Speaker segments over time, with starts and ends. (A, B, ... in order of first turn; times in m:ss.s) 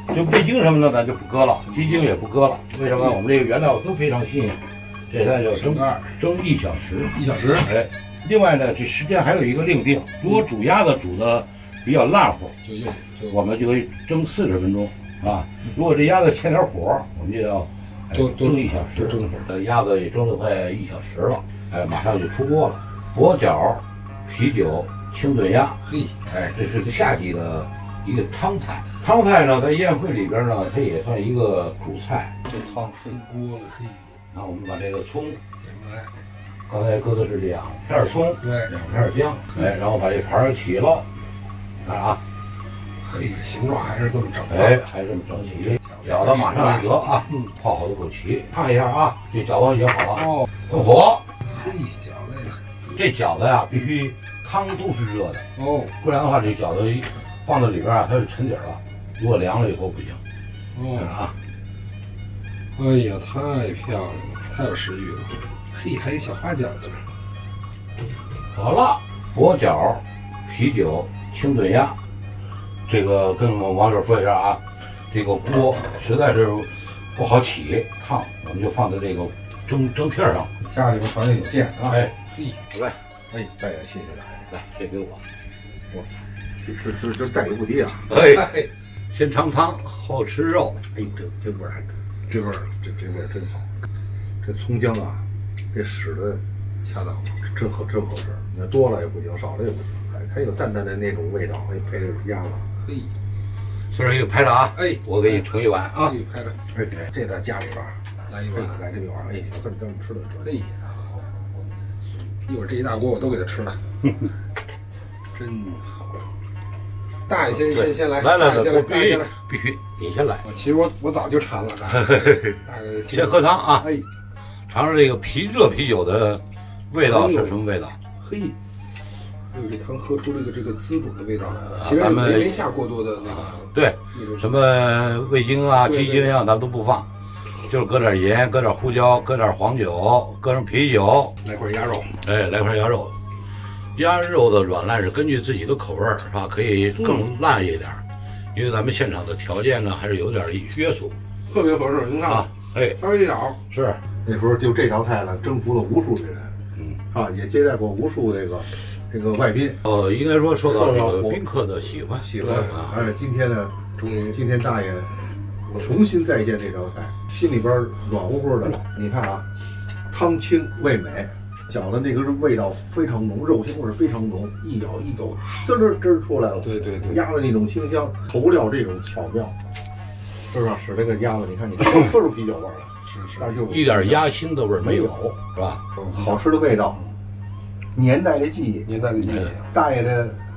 0:00.1-0:12.6 A
0:05.7-0:06.1 B
0:07.1-0:07.7 B
0:12.6-0:13.3 B
0:13.2-0:32.4 A
0:18.2-0:19.3 B
0:25.9-0:26.1 B
0:32.5-0:34.1 B
0:34.3-0:35.4 A
0:35.6-0:36.1 B
0:36.7-0:41.1 A
0:38.4-0:38.7 B
0:41.8-0:42.2 A
0:43.0-0:44.8 B
0:44.4-0:51.3 A
0:45.8-0:46.9 B
0:51.4-0:52.8 B
0:52.9-1:00.2 A
0:55.6-0:55.9 B
1:00.9-1:01.3 A
1:02.8-1:07.0 B
1:08.5-1:12.0 A
1:12.9-1:20.5 A
1:20.7-1:21.9 C
1:21.8-1:22.1 A
1:22.7-1:23.0 A
1:23.3-1:24.3 C
1:24.5-1:25.2 A
1:26.7-1:28.0 C
1:28.1-1:30.9 A
1:31.1-1:31.8 C
1:32.3-1:33.5 B
1:34.4-1:35.2 C
1:35.7-1:36.4 C
1:36.8-1:37.3 B
1:37.6-1:42.6 C
1:43.9-1:46.2 A
1:44.8-1:45.1 B
1:46.0-1:46.6 B
1:46.8-1:47.1 A
1:47.1-1:48.0 C
1:48.3-1:48.8 B
1:48.7-1:50.5 C
1:50.5-1:50.7 B
1:52.5-1:53.8 B
1:55.3-1:56.0 B
1:57.3-1:59.4 B
1:57.5-2:00.5 A
2:00.4-2:04.0 B
2:01.9-2:04.0 A
2:04.7-2:08.0 A
2:08.2-2:08.6 B
2:09.5-2:14.4 B
2:11.7-2:12.6 A
2:13.2-2:17.1 A
2:17.6-2:21.4 A
2:21.4-2:22.1 B
2:22.2-2:23.2 A
2:24.0-2:31.2 A
2:31.5-2:32.5 B
2:32.2-2:33.1 A
2:33.0-2:33.6 B
2:33.7-2:34.0 A
2:34.3-2:36.5 C
2:37.1-2:39.8 C
2:39.8-2:43.0 A
2:42.6-2:43.0 B
2:42.7-2:45.2 C
2:44.0-2:44.4 B
2:45.7-2:49.4 C
2:50.1-2:59.5 C
2:56.6-2:57.2 B
3:00.5-3:02.9 C
3:03.1-3:03.6 B
3:03.6-3:05.8 A
3:06.0-3:06.4 B
3:06.1-3:07.0 C
3:08.0-3:08.9 C
3:08.9-3:09.7 B
3:09.2-3:09.5 A
3:09.7-3:10.4 C